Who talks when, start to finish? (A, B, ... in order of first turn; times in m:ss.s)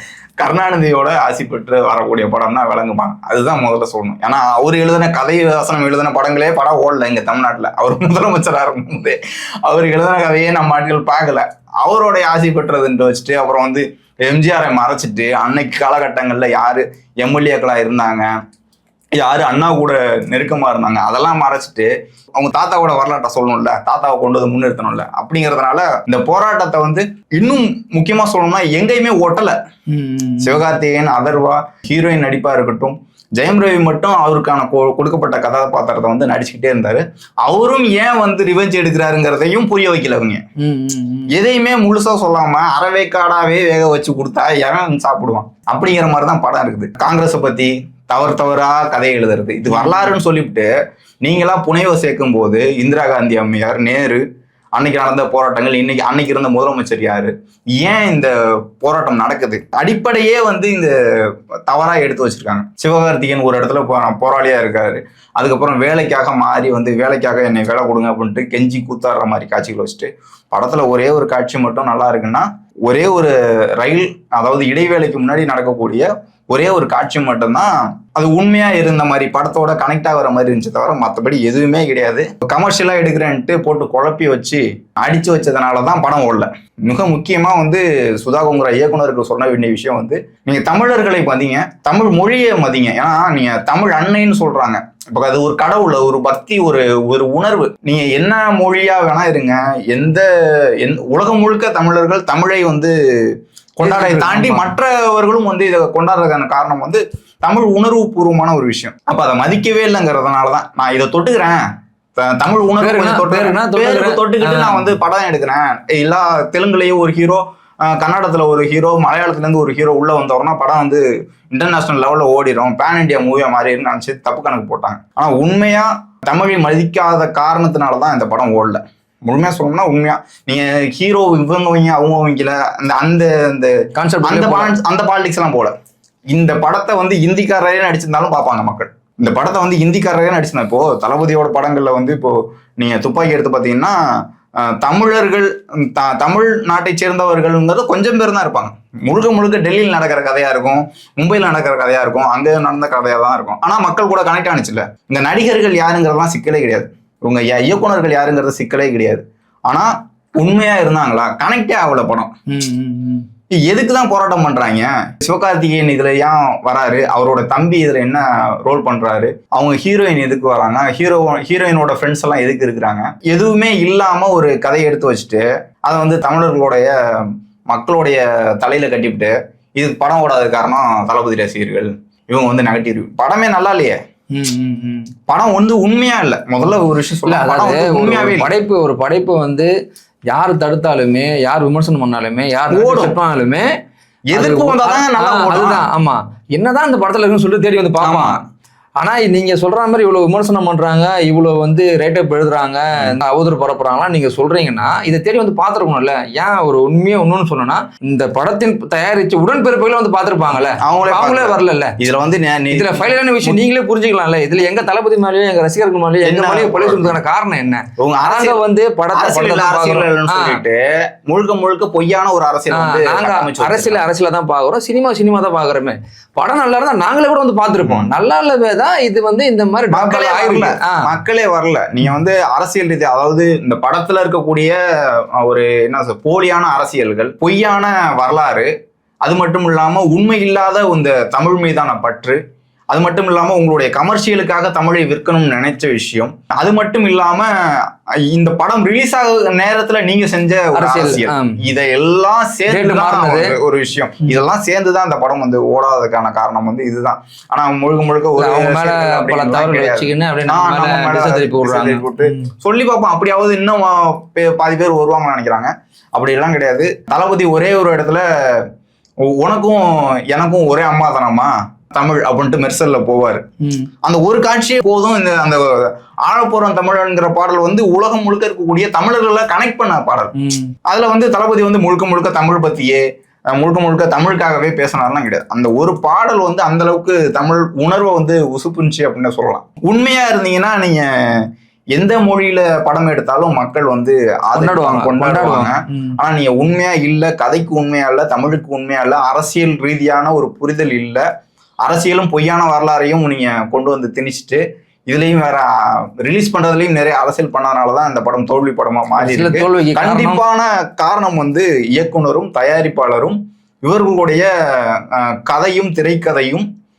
0:00.4-0:18.3 A
0:19.2-0:29.6 A
0:29.9-0:30.7 B
0:30.4-0:40.4 A
0:40.6-0:41.3 B
0:41.3-0:50.7 A
0:49.7-0:50.2 B
0:51.2-0:54.2 A
0:54.8-1:00.9 A
1:01.7-1:40.3 A
1:40.8-1:42.9 A
1:43.8-1:51.6 A
1:43.8-1:44.7 B
1:52.2-2:15.7 A
1:52.8-1:55.0 B
2:14.0-2:14.7 B
2:16.3-2:24.0 A
2:24.7-2:42.4 A
2:42.5-2:43.3 B
2:43.6-3:04.0 A
3:04.3-3:05.1 B
3:05.3-3:08.5 A
3:07.3-3:09.7 B
3:10.3-3:13.7 B
3:12.7-3:13.2 A
3:14.3-3:15.8 A
3:14.3-3:18.4 B
3:18.0-3:18.4 A
3:19.0-3:32.0 B
3:30.8-3:33.6 A
3:32.7-3:40.6 B
3:36.2-3:37.2 A
3:38.0-3:38.6 A
3:39.1-3:44.1 A
3:42.7-3:51.0 B
3:47.8-3:48.1 A
3:49.9-3:54.8 A
3:55.4-3:58.7 A
3:59.2-4:02.4 A
4:02.9-4:28.6 A
4:10.8-4:11.6 B
4:12.7-4:13.5 B
4:18.4-4:22.5 B
4:29.4-4:33.4 A
4:33.6-4:33.9 B
4:34.0-4:40.3 A
4:40.3-4:40.8 B
4:40.9-4:43.0 A
4:43.6-4:51.4 A
4:52.0-5:01.2 A
4:54.6-4:56.2 B
5:01.8-5:05.7 A
5:06.2-5:16.7 A
5:09.2-5:10.4 B